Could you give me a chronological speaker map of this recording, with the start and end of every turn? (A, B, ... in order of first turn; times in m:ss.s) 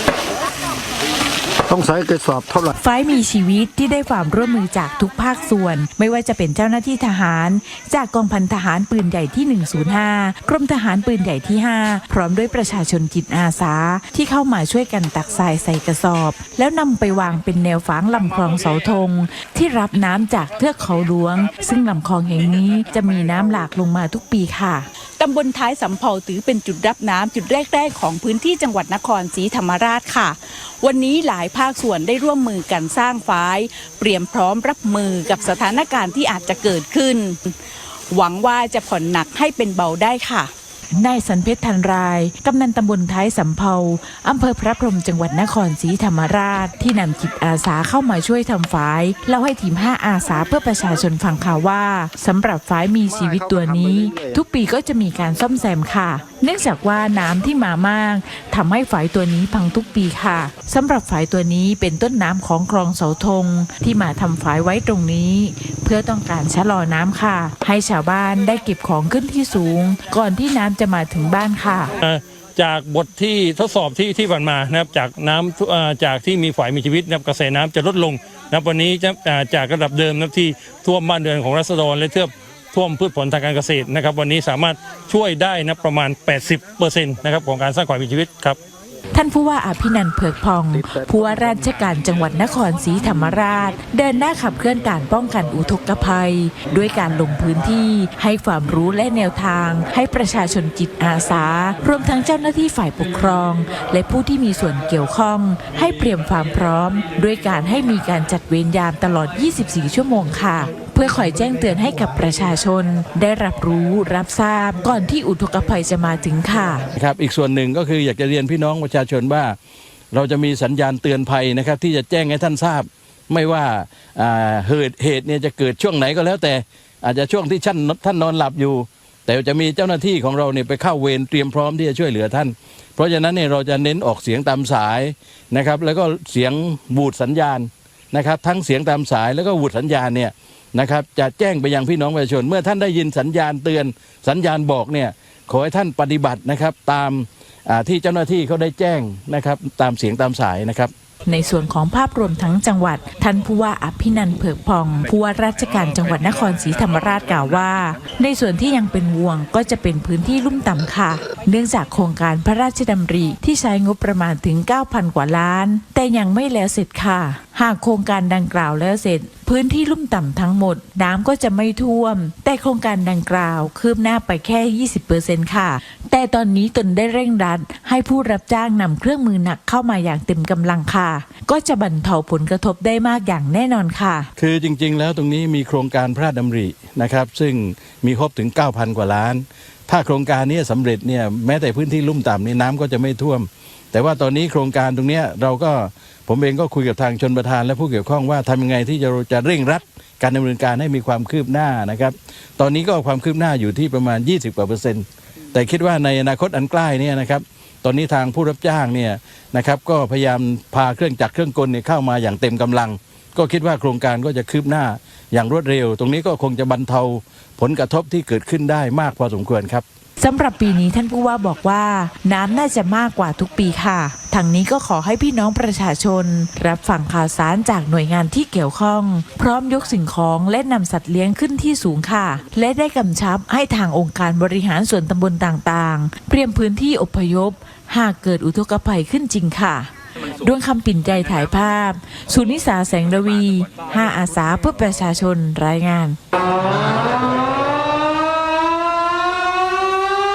0:01.7-0:02.7 A
0:02.8-0:24.9 B
0:25.2-0:37.6 C
0:38.1-0:40.5 C
0:41.0-1:11.9 B
0:53.1-0:54.4 A
1:12.0-1:28.6 D
1:29.1-1:56.9 B
1:30.8-1:31.6 A
1:57.0-1:59.6 E
2:00.1-2:30.9 E
2:31.3-3:04.3 B
3:04.4-3:39.8 E
3:40.2-4:06.2 B